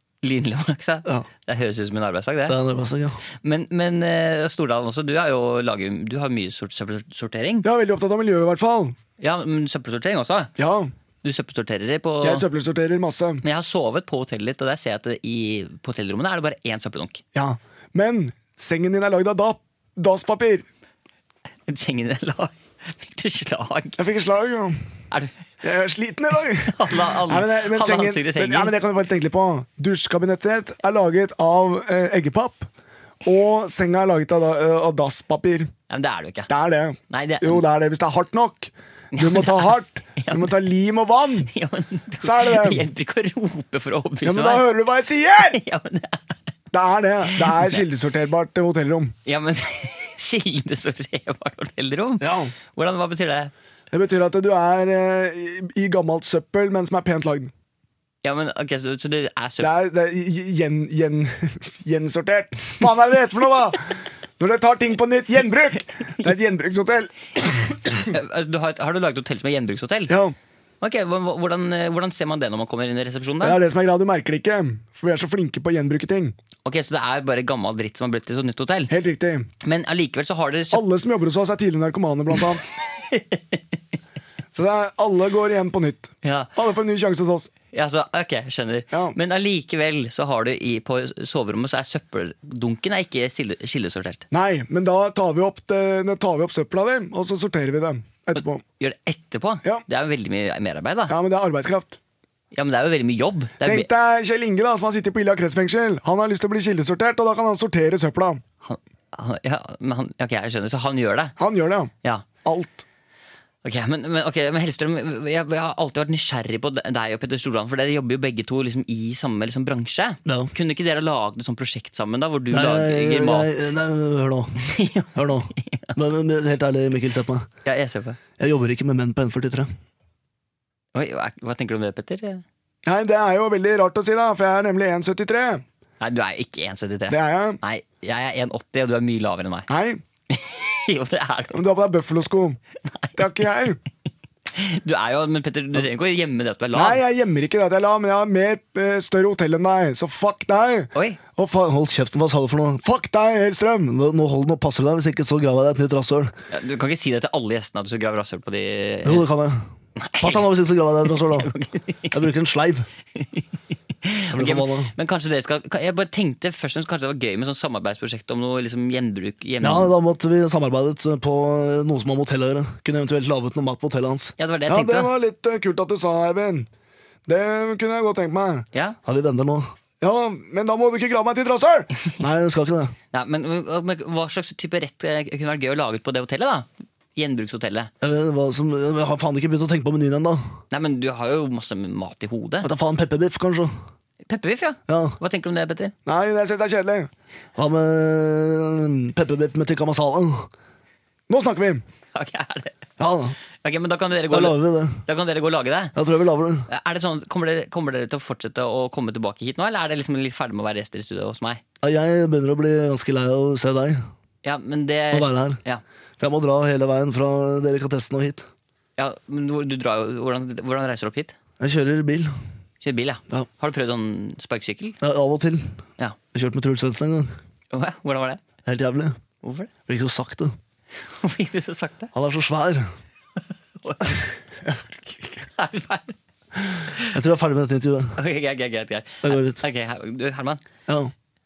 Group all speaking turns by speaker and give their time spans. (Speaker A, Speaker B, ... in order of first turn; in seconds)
Speaker A: 0.2-2.6, 3.4-7.7, 9.2-10.5, 11.2-12.5, 13.4-17.2, 21.7-24.0, 25.1-25.5, 26.6-28.8, 35.9-36.5, 37.1-37.6, 39.1-40.5, 41.5-44.7, 45.5-46.4, 47.3-47.8, 49.3-53.5, 58.2-59.7, 68.0-70.2, 70.8-73.6, 76.7-78.9, 79.6-80.8, 82.9-83.6, 86.2-86.5, 87.7-94.2, 98.3-101.2, 102.5-103.9, 108.6-111.3, 113.6-123.7, 124.6-126.0, 127.7-128.2, 130.9-132.4, 136.0-139.7, 140.3-141.6, 142.9-143.2, 144.5-147.0, 150.9-151.2, 156.5-159.3, 160.0-160.5, 161.2-162.2, 163.2-163.5, 164.0-169.9, 174.4-175.1, 178.7-179.0, 183.1-187.9, 190.7-192.7, 194.3-195.9, 202.1-202.8, 203.6-205.9, 206.7-211.6, 214.4-215.8, 219.0-221.3, 222.8-225.0, 227.7-228.4, 229.4-229.7, 231.1-232.1, 233.8-234.3, 235.5-236.2, 236.7-237.1, 238.2-240.6
Speaker B: 2.5-3.2, 120.3-120.5, 122.5-127.5, 128.4-129.7, 151.4-152.8, 153.9-156.3, 159.0-159.7, 160.2-161.5, 162.1-162.9, 164.3-164.9, 169.6-174.3, 179.0-179.7, 182.2-182.9, 188.0-190.4, 192.6-193.8, 194.9-195.2, 197.6-200.5, 203.0-203.3, 204.3-205.0, 206.0-206.7, 211.8-214.1, 215.1-215.6, 216.2-218.5, 221.6-222.3, 225.0-225.8, 226.3-227.4, 228.7-229.2, 229.9-230.6, 232.1-232.9, 237.1-238.2, 239.2-239.6, 240.9-241.1
Speaker C: 7.6-9.0, 10.6-10.9, 12.2-13.4, 17.3-20.7, 24.0-24.8, 25.6-32.7, 33.2-35.7, 36.5-41.5, 42.2-42.9, 44.2-45.6, 46.7-49.1, 52.2-52.5, 53.9-57.5, 59.6-68.1, 70.1-70.4, 73.4-76.3, 78.9-79.5, 80.7-82.7, 84.5-87.5, 88.9-89.2, 94.3-98.6, 101.1-102.0, 103.6-108.4, 111.4-111.9, 112.4-112.8, 132.9-135.6, 137.1-137.6, 139.7-140.0, 141.5-142.6, 143.2-143.8, 146.7-151.4, 152.8-153.9, 174.7-176.7, 177.3-178.7, 180.0-181.9, 196.1-197.1, 201.3-201.8, 234.7-235.4